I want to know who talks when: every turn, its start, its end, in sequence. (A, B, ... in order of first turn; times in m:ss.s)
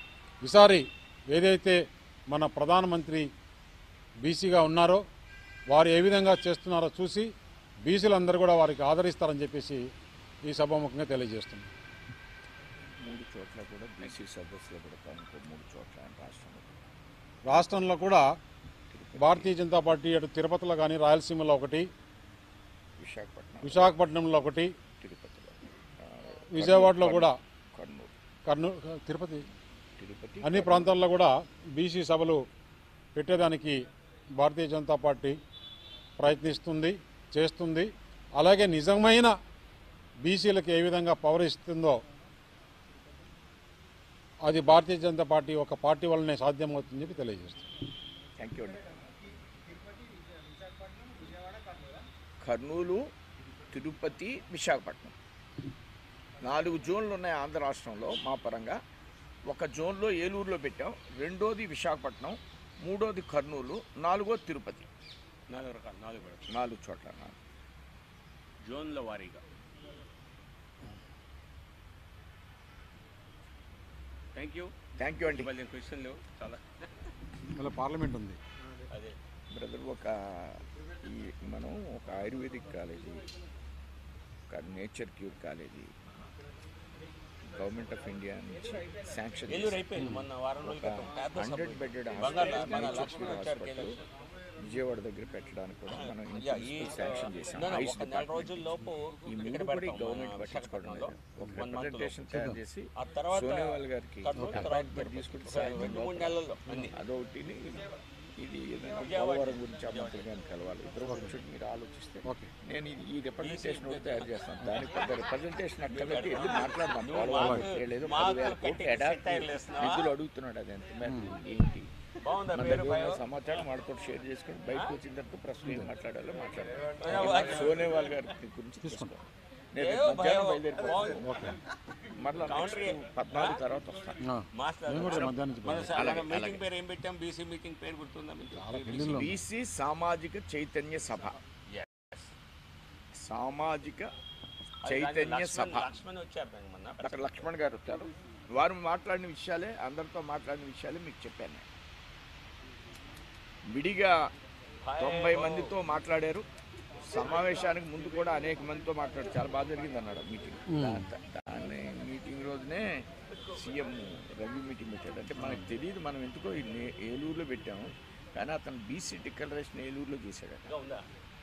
0:00.4-0:03.3 A
0:04.2-0:05.0 A
0:05.7-0:07.3 A
0:07.8-0:09.8 A
0:10.4-0:11.7 A
0:13.0-0:16.7 B
0:17.5-0:18.2 A
0:18.9-0:19.5 B
0:19.2-0:21.9 A
0:23.0-0:23.9 B
0:23.6-0:24.7 A
0:25.0-0:28.1 B
0:26.5-0:27.3 A
0:28.5-0:29.4 A
0:30.0-0:31.0 B
0:30.4-0:32.4 A
0:33.2-0:33.8 A
0:34.4-0:35.4 A
0:36.2-0:39.3 A
0:40.2-0:42.0 A
0:44.4-0:47.7 A
0:48.4-0:48.9 B
0:52.4-0:53.0 B
0:53.7-0:55.1 B
0:56.4-0:58.8 B
0:59.5-1:04.9 B
1:05.5-1:06.5 C
1:06.5-1:07.3 B
1:08.6-1:09.4 C
1:14.3-1:14.7 C
1:15.0-1:15.5 B
1:15.3-1:16.8 C
1:17.5-1:18.4 A
1:18.9-1:19.2 C
1:19.5-1:23.2 B
1:24.5-1:25.9 B
1:27.5-1:29.8 B
1:29.5-1:34.0 C
1:30.0-1:30.2 A
1:30.6-1:34.0 B
1:34.6-1:38.6 B
1:36.0-1:42.2 C
1:39.2-1:46.4 B
1:42.3-1:42.6 A
1:43.0-1:46.9 C
1:44.4-1:44.6 A
1:46.9-2:01.9 B
1:49.0-1:50.3 C
1:52.2-1:52.5 A
1:53.4-1:55.1 C
1:55.9-2:00.1 C
1:57.3-1:57.7 A
2:01.0-2:01.3 A
2:02.2-2:03.2 C
2:02.5-2:11.2 B
2:07.0-2:08.2 C
2:08.8-2:09.1 A
2:09.8-2:11.4 C
2:11.2-2:11.6 A
2:12.1-2:14.2 B
2:12.5-2:13.6 C
2:14.2-2:16.0 A
2:14.5-2:19.3 C
2:15.9-2:16.6 B
2:18.5-2:19.3 A
2:19.0-2:21.4 B
2:21.7-2:22.3 C
2:23.1-2:24.1 B
2:24.8-2:27.3 C
2:24.8-2:25.9 B
2:27.0-2:31.6 B
2:33.7-2:34.2 B
2:34.8-2:35.7 C
2:35.0-2:36.4 B
2:37.1-2:50.8 B
2:40.7-2:41.0 A
2:45.4-2:45.6 A
2:50.7-2:51.0 C